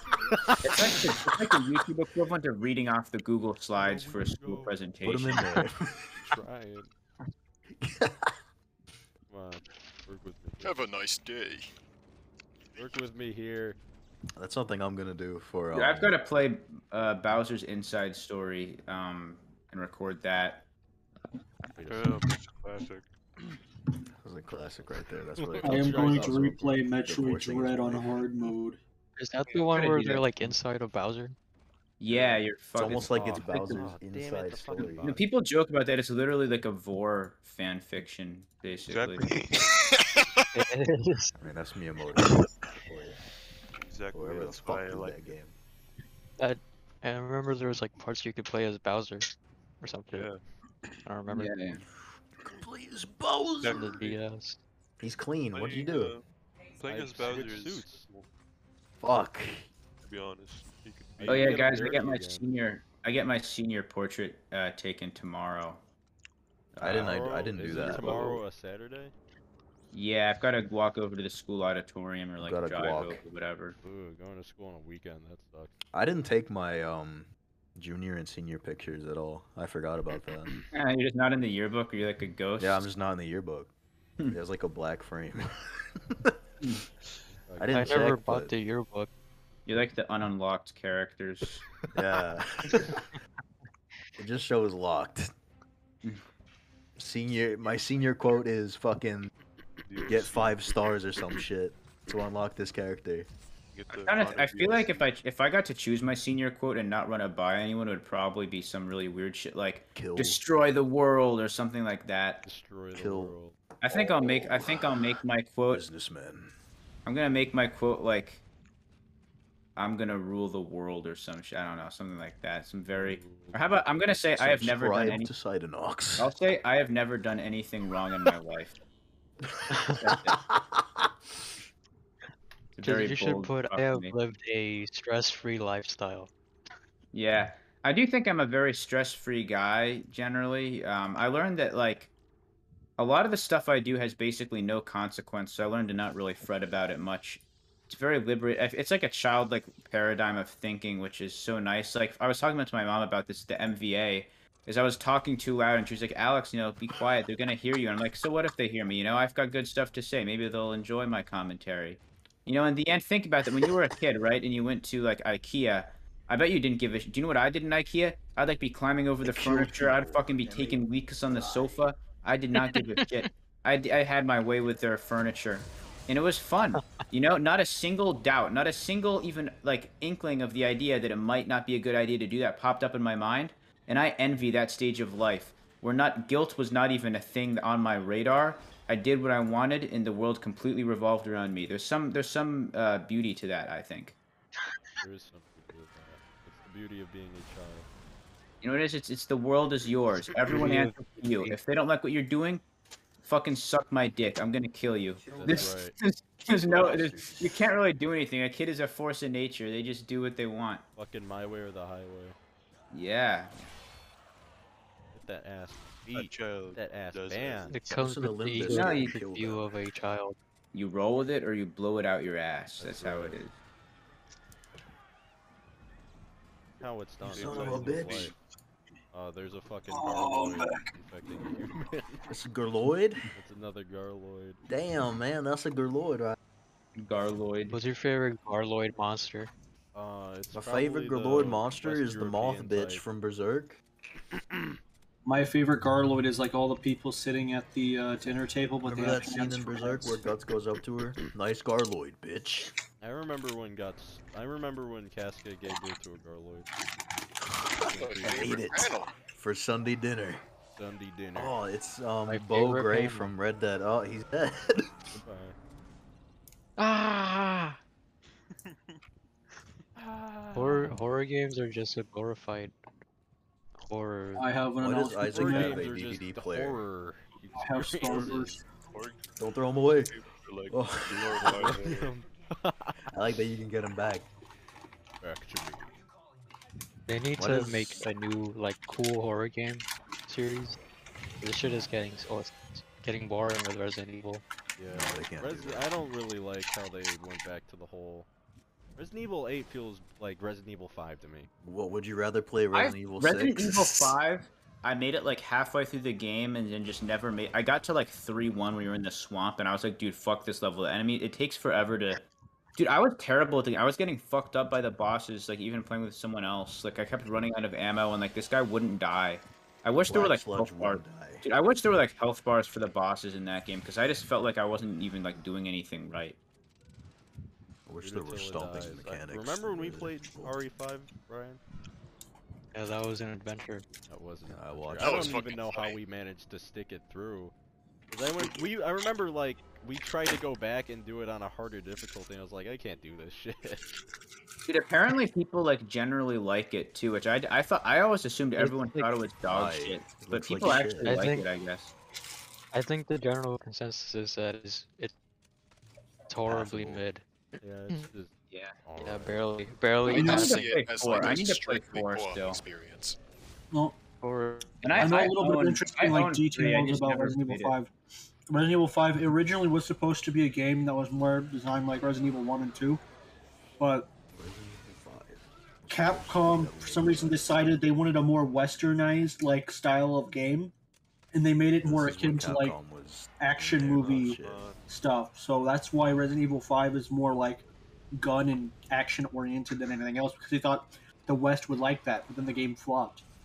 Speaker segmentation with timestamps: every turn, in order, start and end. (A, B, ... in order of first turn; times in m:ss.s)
0:00.3-0:01.0 A
0:00.6-0:05.6 B
0:03.8-0:04.8 A
0:05.0-0:06.1 C
0:06.2-0:06.9 A
0:07.7-0:08.4 C
0:09.3-0:10.8 A
0:10.6-0:11.7 D
0:12.8-0:13.8 A
0:14.4-0:16.1 C
0:15.7-0:20.7 B
0:21.8-0:22.2 A
0:21.8-0:23.1 E
0:24.2-0:28.3 C
0:25.4-0:26.6 A
0:25.6-0:28.8 F
0:29.2-0:31.4 G
0:29.7-0:30.3 B
0:32.0-0:33.8 B
0:32.1-0:35.3 A
0:32.8-0:35.1 C
0:35.0-0:39.3 B
0:38.8-0:39.7 E
0:40.5-0:41.4 G
0:41.4-0:43.2 C
0:43.8-0:45.4 E
0:44.1-0:45.6 C
0:46.4-0:50.3 G
0:50.1-0:50.4 E
0:51.0-0:51.6 G
0:51.3-0:51.8 B
0:52.4-0:53.9 C
0:53.6-0:54.2 E
0:53.6-0:54.6 G
0:55.0-0:56.1 C
0:55.5-0:56.2 E
0:56.8-0:58.3 E
0:56.9-0:58.1 A
0:59.0-0:59.7 C
1:00.0-1:01.9 E
1:01.2-1:02.5 A
1:01.3-1:05.8 B
1:06.8-1:07.2 B
1:06.8-1:08.4 C
1:06.8-1:09.1 A
1:07.9-1:08.1 B
1:09.9-1:13.8 B
1:12.4-1:13.2 C
1:13.8-1:15.8 A
1:15.9-1:20.6 C
1:20.7-1:22.9 B
1:22.6-1:23.7 C
1:24.3-1:26.4 C
1:27.3-1:28.1 A
1:27.6-1:28.5 C
1:27.7-1:29.1 G
1:29.7-1:31.6 B
1:32.0-1:33.0 C
1:34.2-1:35.3 C
1:37.0-1:39.3 C
1:39.9-1:41.4 E
1:40.1-1:43.3 C
1:43.7-1:45.1 E
1:43.9-1:52.4 B
1:50.0-1:50.4 C
1:52.4-1:53.6 A
1:52.9-1:53.4 C
1:53.8-1:55.8 B
1:53.9-1:54.9 C
1:55.7-1:56.5 C
1:57.0-1:58.4 B
1:59.8-2:05.3 B
2:02.9-2:03.9 A
2:04.4-2:06.3 C
2:06.2-2:08.8 B
2:09.4-2:11.1 C
2:10.0-2:10.4 B
2:12.8-2:14.2 B
2:12.8-2:16.3 G
2:17.1-2:22.1 B
2:23.0-3:14.2 B
2:49.2-2:51.8 C
2:52.6-2:53.3 G
2:56.8-2:57.0 G
3:15.0-3:17.9 A
3:18.6-3:22.6 B
3:20.4-3:21.6 G
3:23.2-3:30.8 B
3:25.4-3:26.0 A
3:26.6-3:27.5 C
3:31.0-3:32.4 A
3:32.9-3:33.7 B
3:35.1-3:37.8 A
3:36.1-3:38.0 E
3:37.7-3:40.4 G
3:38.0-3:39.7 C
3:38.6-3:39.1 B
3:40.7-3:43.5 B
3:42.8-3:43.4 A
3:46.8-3:48.3 A
3:47.2-3:48.3 E
3:47.3-3:48.3 C
3:49.1-3:52.3 A
3:50.2-3:50.9 F
3:52.3-3:53.2 C
3:53.3-3:54.6 A
3:54.7-3:56.4 C
3:57.0-3:57.8 B
3:57.7-3:59.5 G
3:59.9-4:03.0 A
4:00.5-4:03.8 C
4:05.2-4:10.2 F
4:08.8-4:12.7 C
4:13.0-4:16.7 A
4:17.6-4:20.4 C
4:17.8-4:18.7 A
4:18.2-4:19.1 D
4:20.8-4:21.6 A
4:21.4-4:25.0 C
4:22.3-4:23.3 G
4:25.2-4:25.6 A
4:26.8-4:27.8 A
4:28.7-4:29.0 E
4:30.0-4:31.0 A
4:30.5-4:32.8 G
4:33.8-4:34.6 G
4:34.4-4:35.8 F
4:34.8-4:36.8 C
4:35.3-4:38.6 A
4:37.6-4:38.6 F
4:38.1-4:42.1 E
4:39.4-4:40.1 C
4:40.7-4:41.8 C
4:41.5-4:43.1 A
4:43.1-4:44.3 C
4:45.2-4:46.0 A
4:47.1-4:50.8 G
4:47.4-4:48.0 C
4:51.4-4:54.4 G
4:54.8-4:58.3 A
4:54.9-4:55.9 C
4:59.0-5:01.5 A
5:01.6-5:04.1 C
5:02.7-5:12.2 B
5:12.8-5:26.4 B
5:20.0-5:21.5 C
5:27.9-5:30.6 C
5:28.0-5:31.6 A
5:32.7-5:33.9 G
5:34.1-5:37.5 A
5:34.5-5:35.4 C
5:35.0-5:36.0 D
5:38.1-5:43.9 A
5:44.7-5:51.9 B
5:48.6-5:49.1 G
5:49.5-5:51.3 C
5:51.0-5:51.5 G
5:52.7-5:55.1 G
5:56.3-5:57.2 G
5:56.5-5:57.0 C
5:57.6-5:58.3 A
5:58.5-5:58.8 B
5:58.8-5:59.4 A
5:59.0-6:00.6 G
6:00.0-6:03.2 D
6:00.1-6:00.6 F
6:00.1-6:02.6 B
6:03.7-6:04.0 F
6:04.2-6:05.3 G
6:04.8-6:07.8 B
6:05.0-6:07.9 F
6:08.5-6:13.0 F
6:13.8-6:14.1 F
6:14.3-6:17.7 C
6:15.9-6:20.7 F
6:21.3-6:22.8 F
6:21.8-6:24.7 C
6:23.4-6:33.3 F
6:24.0-6:24.9 E